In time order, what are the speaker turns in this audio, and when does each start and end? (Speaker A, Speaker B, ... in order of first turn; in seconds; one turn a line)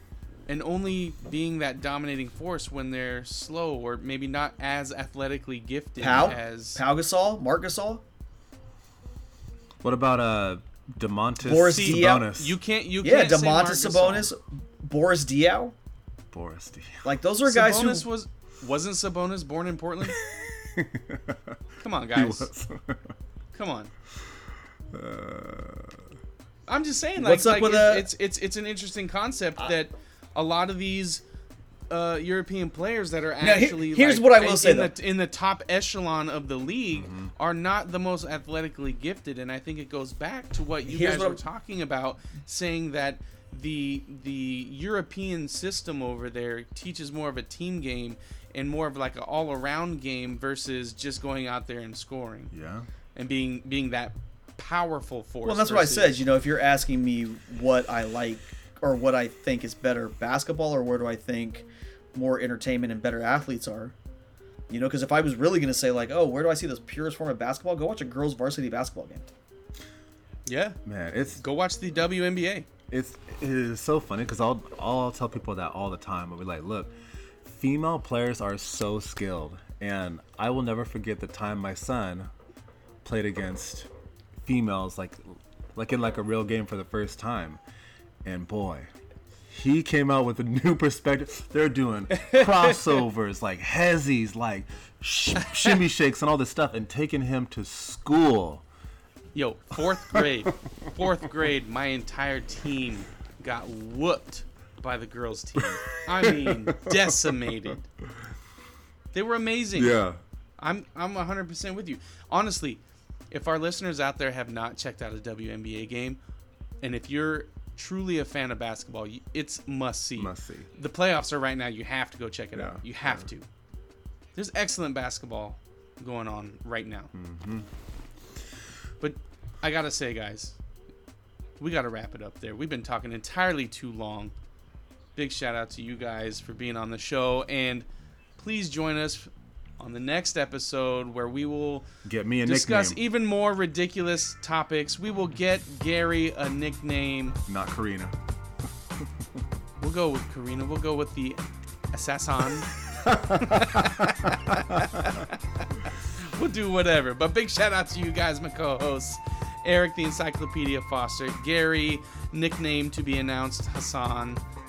Speaker A: 0.5-6.8
Speaker B: 6.0-8.0
Speaker C: 6.0-6.3
Speaker C: 9.8-12.6
Speaker B: 11.4-12.3
Speaker A: 11.7-14.3
Speaker B: 13.0-15.7
Speaker C: 16.3-17.1
Speaker B: 17.0-18.1
Speaker A: 17.4-20.2
Speaker C: 20.0-21.6
Speaker A: 21.8-22.5
Speaker C: 22.1-23.1
Speaker A: 23.5-23.9
Speaker C: 24.9-26.0
Speaker A: 26.7-31.2
Speaker B: 27.2-28.1
Speaker A: 31.9-52.5
Speaker B: 33.4-34.9
Speaker C: 36.9-37.3
Speaker B: 40.8-41.4
Speaker C: 52.5-52.9
Speaker A: 53.1-56.2
Speaker B: 55.4-63.9
Speaker B: 64.7-69.3
Speaker A: 70.5-70.8
Speaker C: 70.8-71.4
Speaker A: 71.4-72.7
Speaker C: 72.9-76.9
Speaker C: 77.4-82.3
Speaker C: 83.0-83.9
Speaker C: 84.4-87.6
Speaker C: 88.2-88.9
Speaker C: 89.5-98.6
Speaker A: 92.1-93.0
Speaker A: 95.4-95.8
Speaker A: 99.3-107.8
Speaker C: 99.9-100.8
Speaker C: 105.6-107.3
Speaker A: 109.1-110.0
Speaker C: 109.8-110.2
Speaker A: 110.6-116.2
Speaker A: 116.8-123.5
Speaker C: 120.2-120.7
Speaker C: 122.5-123.3
Speaker A: 124.3-127.1
Speaker C: 127.1-127.7
Speaker A: 129.0-130.6
Speaker A: 131.6-134.3
Speaker A: 135.2-137.9
Speaker A: 138.4-141.8
Speaker C: 142.0-143.0
Speaker A: 142.4-147.4
Speaker C: 147.5-148.1
Speaker A: 149.8-151.4
Speaker A: 151.9-152.7
Speaker A: 153.3-155.7
Speaker A: 156.2-164.4